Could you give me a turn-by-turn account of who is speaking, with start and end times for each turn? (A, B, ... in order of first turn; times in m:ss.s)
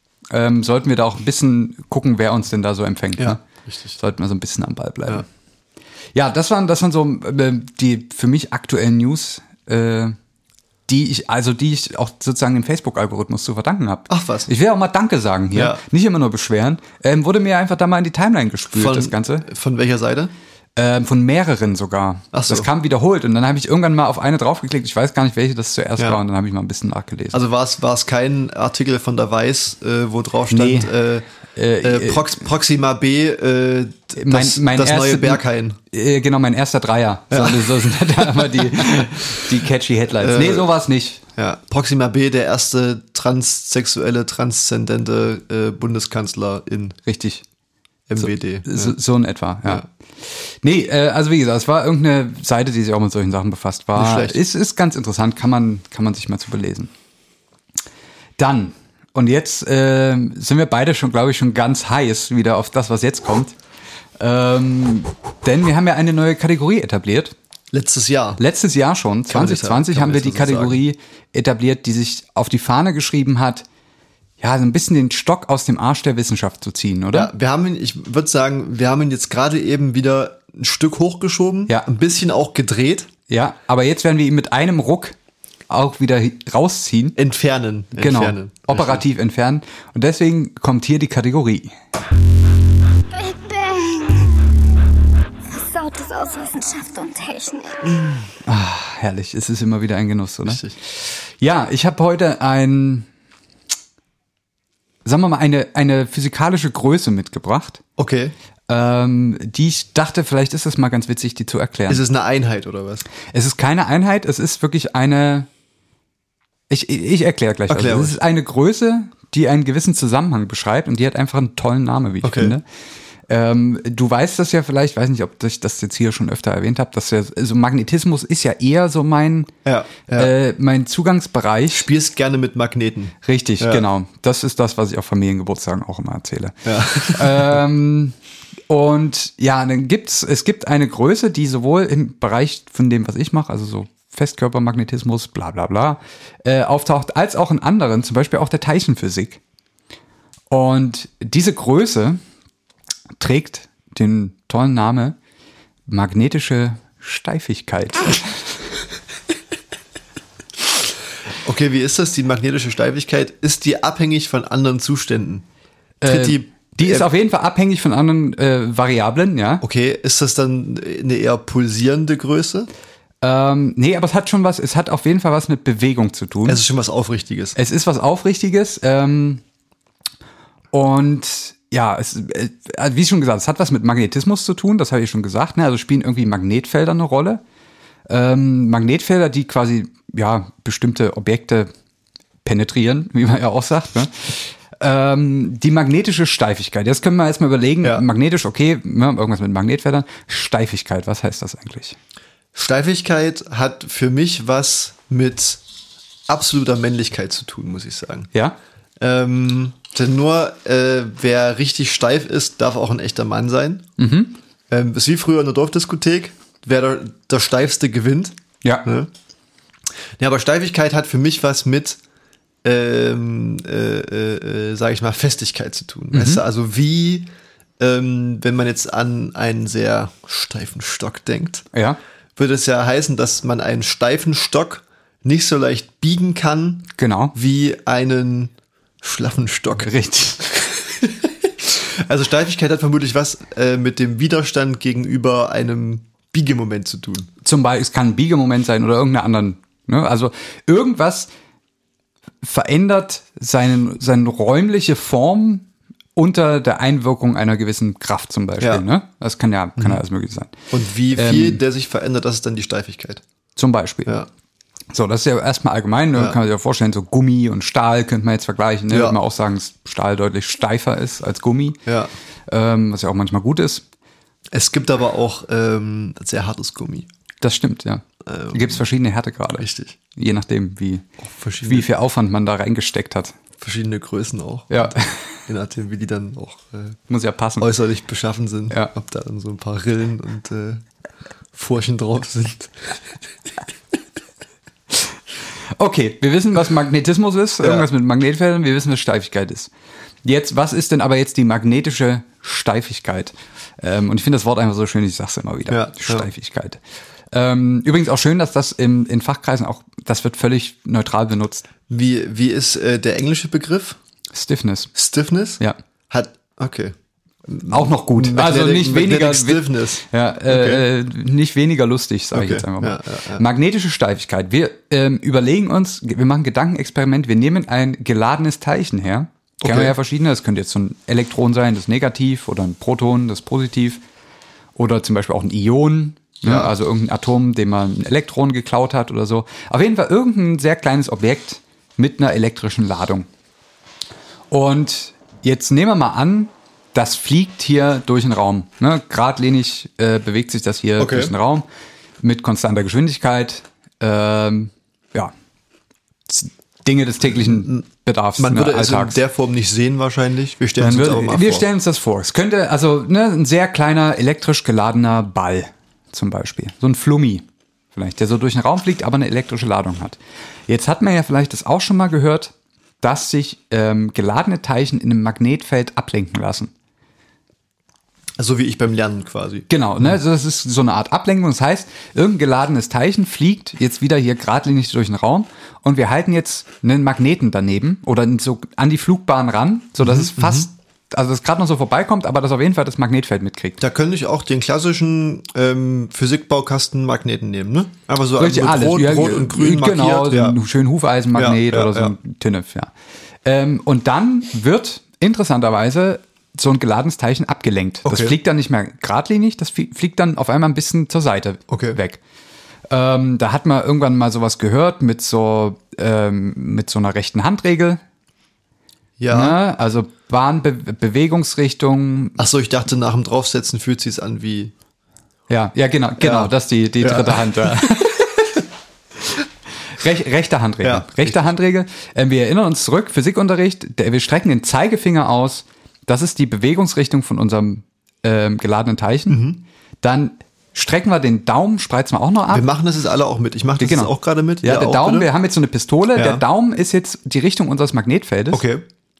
0:00.3-0:03.4 A
0:03.2-0:04.0 B
0:04.0-0:05.2 A
0:06.1-0:10.2 A
0:10.9-0:19.5 A
0:14.1-0:14.5 B
0:15.5-0:15.8 B
0:18.7-0:20.3 B
0:20.8-0:27.4 A
0:22.3-0:22.7 B
0:27.3-0:31.3 B
0:30.5-0:30.9 A
0:31.5-0:32.4 A
0:31.8-0:35.8 B
0:34.2-0:41.2 A
0:37.3-0:39.0 B
0:40.2-0:40.7 B
0:41.4-0:47.0 B
0:47.0-0:47.4 A
0:48.1-0:49.0 B
0:48.2-0:56.9 A
0:53.9-0:54.4 B
0:58.4-1:03.5 A
1:04.2-1:07.3 A
1:07.7-1:08.4 B
1:08.4-1:13.6 A
1:09.3-1:10.8 B
1:14.4-1:17.3 A
1:17.1-1:23.1 B
1:23.3-1:25.2 A
1:25.7-1:27.2 A
1:27.2-1:29.0 B
1:28.0-1:31.7 A
1:33.1-1:34.6 C
1:35.4-1:38.0 C
1:38.4-1:43.1 A
1:40.4-1:40.7 B
1:45.0-1:47.8 A
1:48.0-1:48.3 B
1:48.7-1:52.0 A
1:51.9-1:53.0 B
1:53.3-1:55.5 A
1:56.7-2:02.6 A
1:57.7-1:58.2 B
2:02.2-2:02.5 B
2:03.3-2:09.5 A
2:09.6-2:10.3 B
2:10.2-2:11.9 A
2:11.7-2:13.8 B
2:13.2-2:18.1 A
2:16.6-2:17.6 B
2:18.7-2:29.4 A
2:30.5-2:32.2 A
2:33.2-2:35.2 A
2:35.9-2:38.4 A
2:41.4-2:45.4 B
2:46.0-2:49.6 A
2:46.0-2:47.1 B
2:49.6-2:52.7 B
2:53.2-2:56.6 A
2:56.4-2:57.6 B
2:57.5-2:59.4 A
3:00.7-3:07.4 A
3:08.1-3:11.7 A
3:12.4-3:22.0 A
3:22.5-3:25.6 B
3:26.3-3:28.3 B
3:29.0-3:33.9 B
3:34.0-3:34.4 A
3:34.7-3:39.1 B
3:40.2-3:42.0 B
3:42.6-3:47.3 B
3:46.1-3:46.4 A
3:47.8-3:51.7 B
3:51.7-3:52.0 A
3:52.4-3:59.9 B
3:57.0-3:57.3 A
3:59.8-4:00.6 A
4:00.5-4:07.3 B
4:07.4-4:11.3 A
4:12.4-4:20.5 A
4:20.7-4:23.2 B
4:21.1-4:21.6 A
4:23.6-4:24.2 A
4:24.9-4:31.8 A
4:28.9-4:29.2 B
4:31.8-4:32.1 B
4:32.5-4:33.8 A
4:34.5-4:37.1 B
4:37.4-4:41.0 A
4:38.2-4:38.8 B
4:39.6-4:40.0 B
4:41.2-4:41.9 B
4:41.6-4:43.4 A
4:43.6-4:47.0 B
4:44.7-4:45.4 A
4:47.1-4:47.7 A
4:47.6-4:50.8 B
4:51.5-4:53.1 B
4:55.8-4:59.7 A
5:00.2-5:06.8 A
5:05.7-5:06.3 B
5:07.3-5:11.6 A
5:11.9-5:14.0 B
5:14.3-5:14.9 A
5:14.9-5:16.9 B
5:17.5-5:20.8 B
5:17.6-5:34.0 A
5:22.3-5:23.4 B
5:29.6-5:29.9 B
5:34.8-5:43.2 A
5:36.4-5:36.7 B
5:44.5-5:51.6 A
5:51.0-5:51.3 B
5:52.2-5:55.3 A
5:56.3-5:59.2 A
5:57.3-5:57.8 B
5:58.4-6:01.7 B
6:00.8-6:16.7 A
6:18.4-6:20.2 B
6:19.7-6:33.8 A
6:30.0-6:30.7 B
6:33.8-6:40.6 B
6:38.4-6:42.9 A
6:41.4-6:42.1 B
6:43.4-6:52.2 A
6:48.0-6:48.4 B
6:51.7-6:52.0 B
6:52.9-6:58.0 A
6:59.2-6:59.6 B
6:59.3-7:02.4 A
7:02.4-7:04.7 B
7:05.5-7:08.3 A
7:06.2-7:08.4 B
7:09.9-7:19.4 A
7:10.8-7:11.5 B
7:19.3-7:19.6 B
7:20.0-7:22.7 A
7:22.5-7:25.3 B
7:23.8-7:28.6 A
7:26.1-7:26.4 B
7:28.5-7:28.8 B